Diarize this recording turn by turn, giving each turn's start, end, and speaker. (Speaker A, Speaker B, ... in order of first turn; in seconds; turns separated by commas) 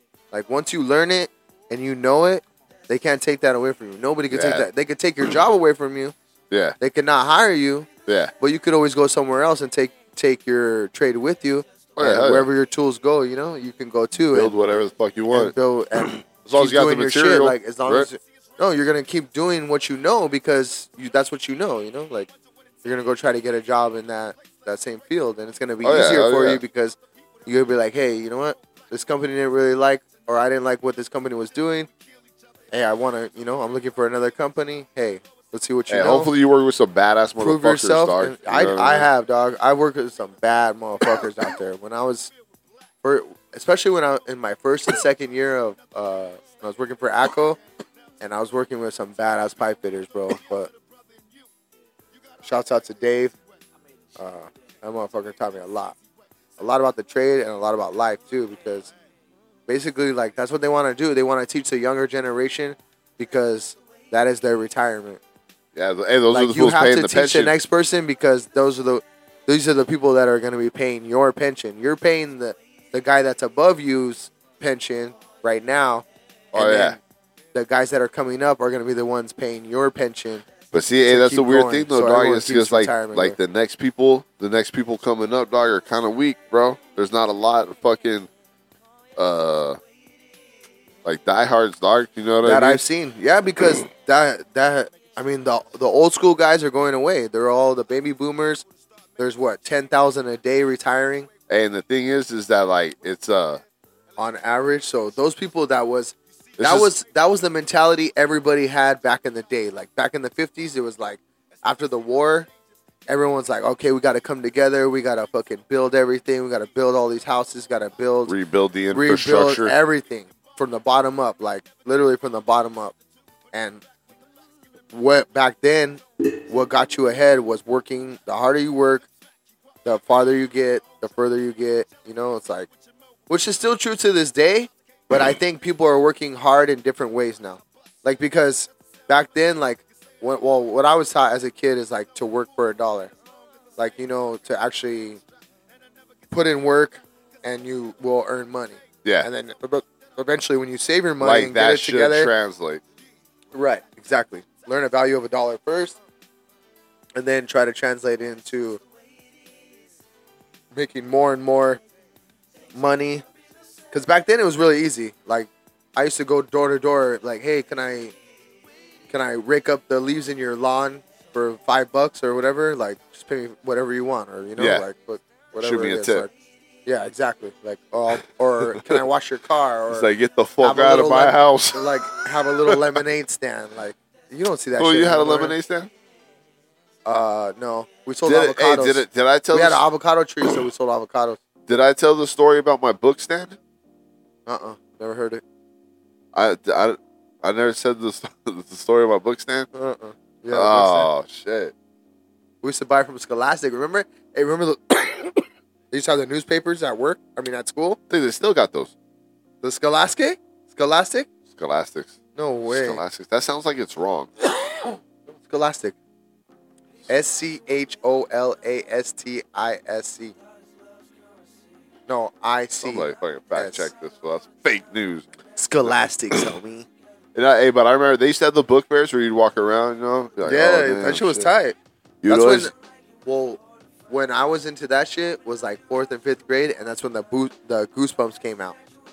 Speaker A: 0.3-6.1, Speaker B: 4.3-4.7, Speaker B: 6.5-6.8, Speaker A: 6.8-7.9, Speaker B: 8.1-8.3, Speaker A: 8.4-14.6, Speaker B: 11.9-12.5, Speaker B: 14.3-18.1, Speaker A: 15.3-22.3, Speaker A: 22.8-31.9, Speaker B: 25.8-26.6, Speaker A: 32.7-36.3, Speaker B: 35.9-39.1, Speaker A: 37.4-42.3, Speaker A: 43.0-47.6, Speaker A: 48.2-50.7, Speaker A: 52.4-53.3, Speaker A: 54.2-56.0, Speaker A: 56.6-58.9, Speaker A: 59.7-65.2, Speaker B: 65.7-67.5, Speaker A: 66.3-77.0, Speaker B: 76.5-77.0, Speaker A: 77.5-80.5, Speaker B: 80.7-88.3, Speaker A: 81.0-83.4, Speaker B: 89.2-89.8, Speaker B: 91.0-92.8, Speaker A: 92.4-98.7, Speaker A: 99.2-101.3, Speaker B: 101.5-103.6, Speaker A: 104.2-112.5, Speaker B: 106.6-106.9, Speaker A: 113.1-118.3, Speaker B: 118.3-119.7, Speaker A: 118.9-122.9, Speaker A: 123.5-123.8, Speaker A: 124.9-129.1, Speaker A: 129.8-132.7, Speaker A: 133.3-143.1, Speaker A: 143.8-145.2, Speaker A: 146.3-152.3, Speaker B: 151.2-152.8, Speaker A: 153.5-156.0, Speaker A: 157.2-158.8, Speaker A: 160.7-161.8, Speaker A: 162.7-163.2, Speaker A: 163.9-168.1, Speaker A: 169.1-176.3, Speaker B: 174.6-174.8, Speaker B: 175.6-176.3, Speaker A: 176.8-180.1, Speaker B: 178.7-179.0, Speaker B: 179.9-182.1, Speaker A: 180.6-185.6, Speaker B: 182.6-183.0, Speaker B: 184.8-185.9, Speaker A: 187.1-191.4, Speaker B: 188.2-189.8, Speaker B: 191.7-193.6, Speaker A: 194.4-195.4, Speaker B: 196.3-199.7, Speaker A: 199.7-201.1, Speaker B: 200.5-201.7, Speaker A: 202.6-208.0, Speaker B: 208.1-208.9, Speaker A: 209.6-211.3, Speaker B: 211.5-214.3, Speaker A: 212.3-213.0, Speaker A: 214.7-215.9, Speaker A: 217.1-220.3, Speaker A: 222.1-223.9, Speaker B: 222.7-225.3, Speaker A: 225.5-226.9, Speaker B: 227.3-231.5, Speaker A: 230.4-231.8, Speaker B: 232.2-232.7, Speaker A: 232.3-232.7, Speaker A: 233.2-238.8